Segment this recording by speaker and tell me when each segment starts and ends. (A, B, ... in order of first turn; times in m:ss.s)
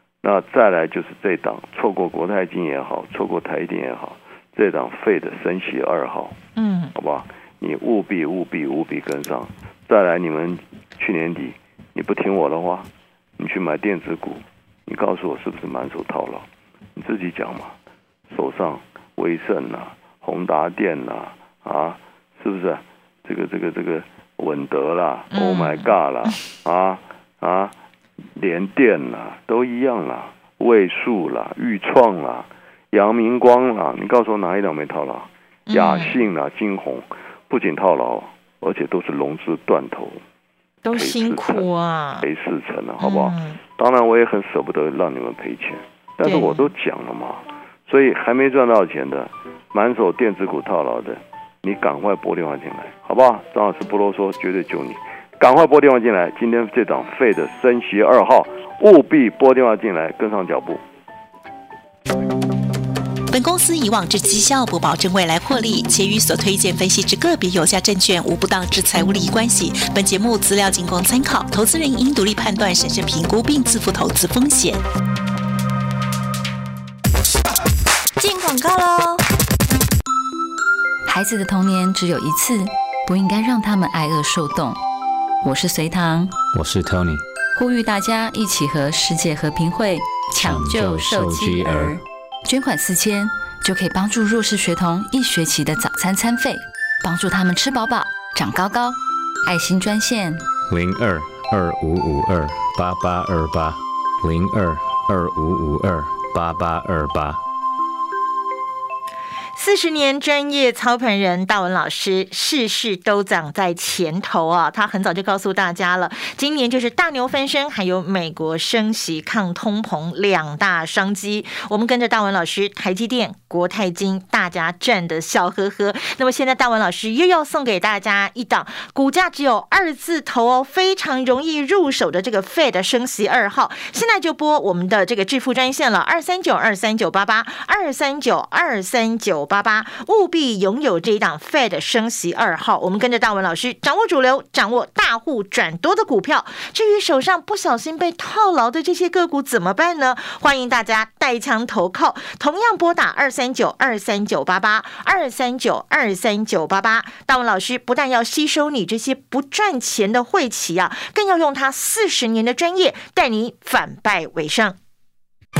0:00.2-0:06.4 A
0:06.6-0:06.9 B
0:06.9-0:17.7 A
0:18.3-0:27.7 A
0:25.3-0:26.3 B
0:28.3-0:40.2 A
0:35.7-0:36.1 B
0:40.8-0:42.3 B
0:40.9-0:41.7 A
0:42.2-1:00.8 A
0:43.0-0:43.6 B
0:46.2-0:46.7 B
1:03.3-1:14.8 C
1:18.2-1:19.2 C
1:21.0-1:24.8 D
1:25.4-1:26.4 D
1:26.5-1:27.2 E
1:27.5-1:40.5 D
1:30.4-1:32.0 E
1:40.6-1:47.4 E
1:49.5-2:44.8 B